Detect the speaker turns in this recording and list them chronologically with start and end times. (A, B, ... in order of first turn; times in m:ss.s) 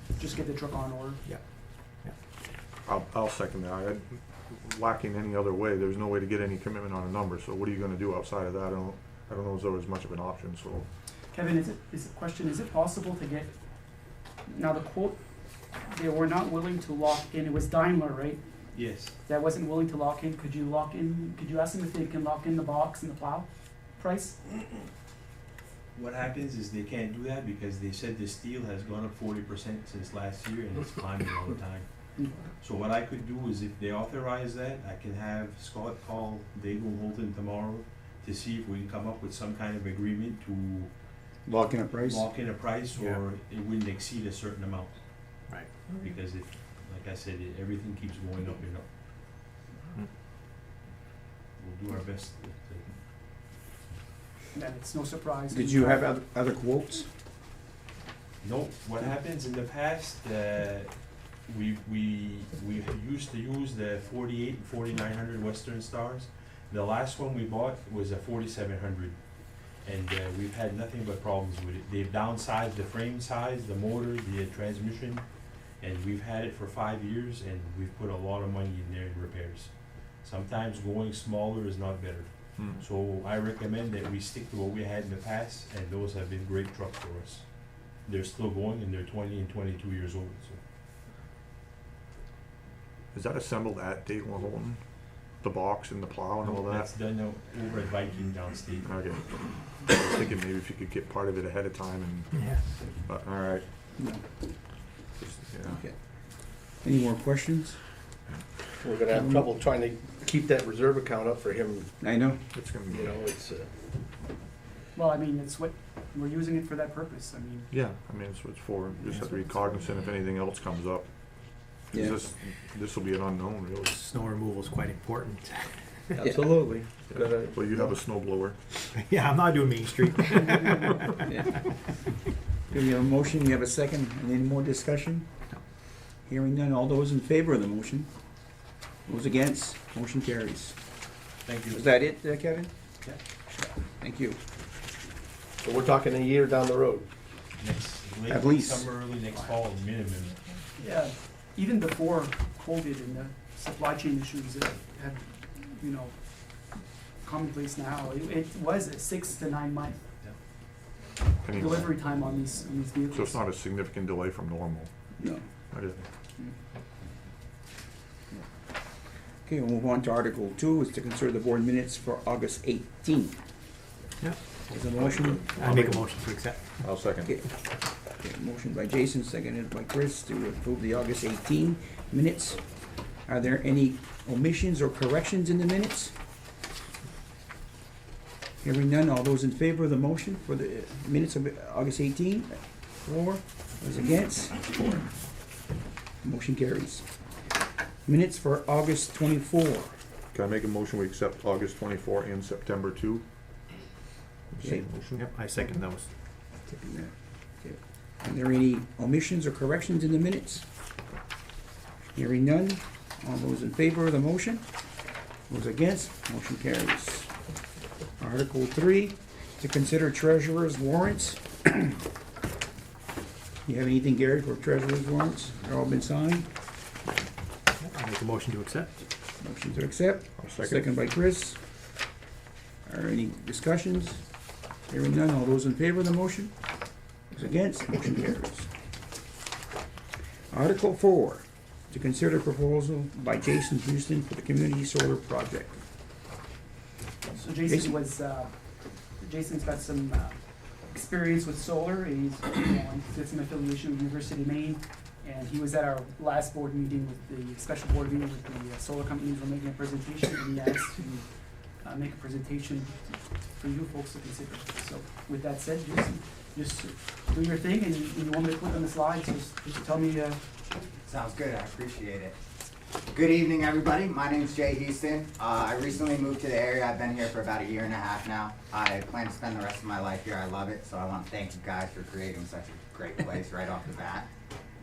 0:00.2-0:01.2 A
0:02.8-0:10.9 B
0:11.3-0:13.5 A
0:14.4-0:15.2 A
0:15.8-0:18.4 A
0:18.7-0:19.1 C
0:19.0-0:24.4 A
0:25.9-0:40.9 C
0:32.2-0:32.5 A
0:41.4-0:42.3 D
0:42.0-0:45.4 C
0:45.5-0:45.8 E
0:45.9-0:48.9 C
0:51.6-0:52.9 C
0:54.5-0:56.1 A
0:55.5-0:57.1 D
0:58.4-1:30.6 C
1:22.6-1:22.8 B
1:33.1-1:34.8 B
1:35.4-1:36.9 B
1:36.4-1:38.9 C
1:38.8-1:43.6 B
1:42.3-1:42.6 E
1:44.0-1:44.2 D
1:45.2-1:45.8 B
1:45.6-1:46.0 D
1:46.8-1:47.8 D
1:48.8-1:51.9 F
1:49.1-1:49.5 D
1:52.0-1:52.4 D
1:52.5-1:53.2 B
1:52.9-1:53.7 F
1:54.9-1:57.7 A
1:57.7-2:01.1 B
2:01.6-2:04.0 B
2:01.9-2:02.2 D
2:03.8-2:06.2 E
2:06.2-2:07.9 F
2:06.2-2:06.5 D
2:07.1-2:08.6 B
2:08.9-2:11.3 E
2:12.7-2:15.3 D
2:16.3-2:18.1 D
2:19.0-2:20.8 D
2:21.4-2:21.9 C
2:21.7-2:22.7 D
2:23.5-2:24.4 D
2:25.6-2:27.1 F
2:27.6-2:30.4 C
2:28.3-2:28.9 D
2:30.8-2:36.2 A
2:37.2-2:40.0 A
2:41.4-2:42.0 B
2:41.5-2:43.4 A
2:43.1-2:44.9 B
2:45.2-2:45.4 D
2:45.7-2:46.0 B
2:49.4-2:53.4 D
2:54.2-2:54.6 E
2:54.7-2:55.5 D
2:54.9-2:57.3 B
2:55.5-2:56.7 E
2:57.2-3:02.7 D
3:03.2-3:06.1 D
3:08.6-3:15.1 D
3:16.2-3:17.0 D
3:18.0-3:20.0 D
3:20.3-3:23.2 B
3:24.5-3:25.3 B
3:25.1-3:26.1 E
3:26.7-3:30.7 D
3:32.1-3:34.6 D
3:35.5-3:37.3 D
3:38.2-3:42.0 D
3:43.6-3:46.5 D
3:47.8-3:49.0 E
3:49.4-3:51.6 D
3:50.4-3:50.9 B
3:52.8-3:54.2 D
3:54.9-3:56.5 D
3:57.3-3:58.7 D
4:00.5-4:05.8 D
4:07.3-4:08.5 A
4:07.7-4:08.0 D
4:09.2-4:10.4 A
4:10.9-4:21.3 A
4:21.8-4:30.4 A
4:31.0-4:32.4 G
4:33.1-4:44.3 G